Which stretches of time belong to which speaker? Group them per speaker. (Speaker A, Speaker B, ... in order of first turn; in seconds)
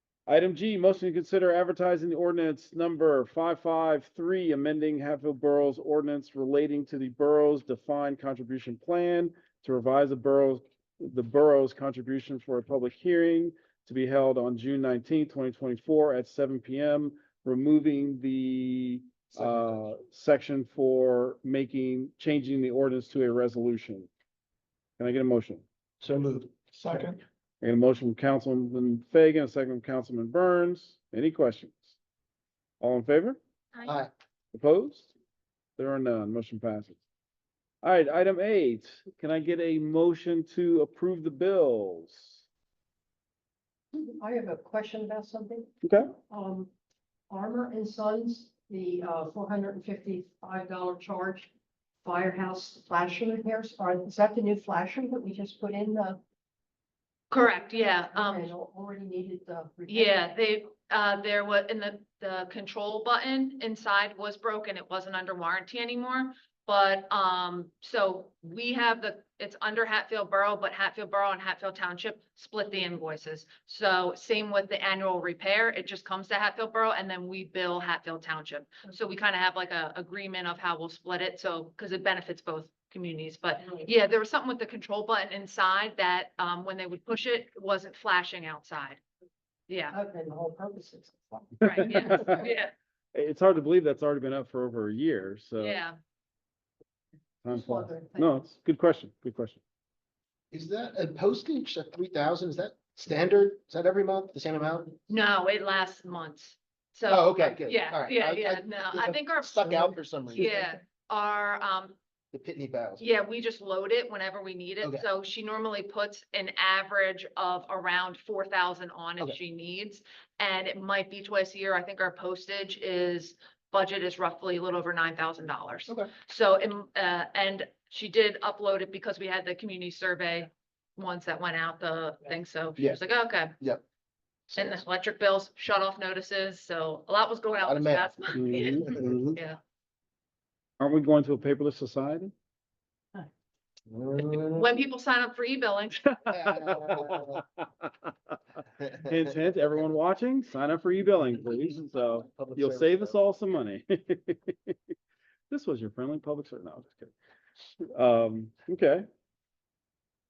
Speaker A: 0.3-24.1, 25.0-25.6, 27.6-32.0, 32.8-33.4, 34.5-35.1, 35.8-37.0, 37.8-42.4, 45.8-46.1, 91.6-92.5, 93.1-95.8, 97.4-99.6, 138.3-139.1, 140.8-142.3, 146.1-148.1, 149.0-154.8, 155.5-157.1, 157.9-159.1
Speaker B: 19.3-19.8, 26.0-27.1, 33.8-34.1, 100.5-105.0, 107.1-110.6, 112.3-113.1, 134.5-134.8, 137.6-139.4, 143.9-144.8, 146.3-147.4, 151.6-153.2
Speaker C: 43.9-45.7, 46.3-46.7, 47.3-51.5, 52.0-56.2, 57.5-60.3, 89.9-92.5, 97.5-98.4
Speaker D: 57.3-58.5, 59.9-89.0, 89.7-90.0, 91.6-92.7, 95.6-96.0, 105.1-112.0, 113.0-133.6, 134.6-139.6, 144.5-146.0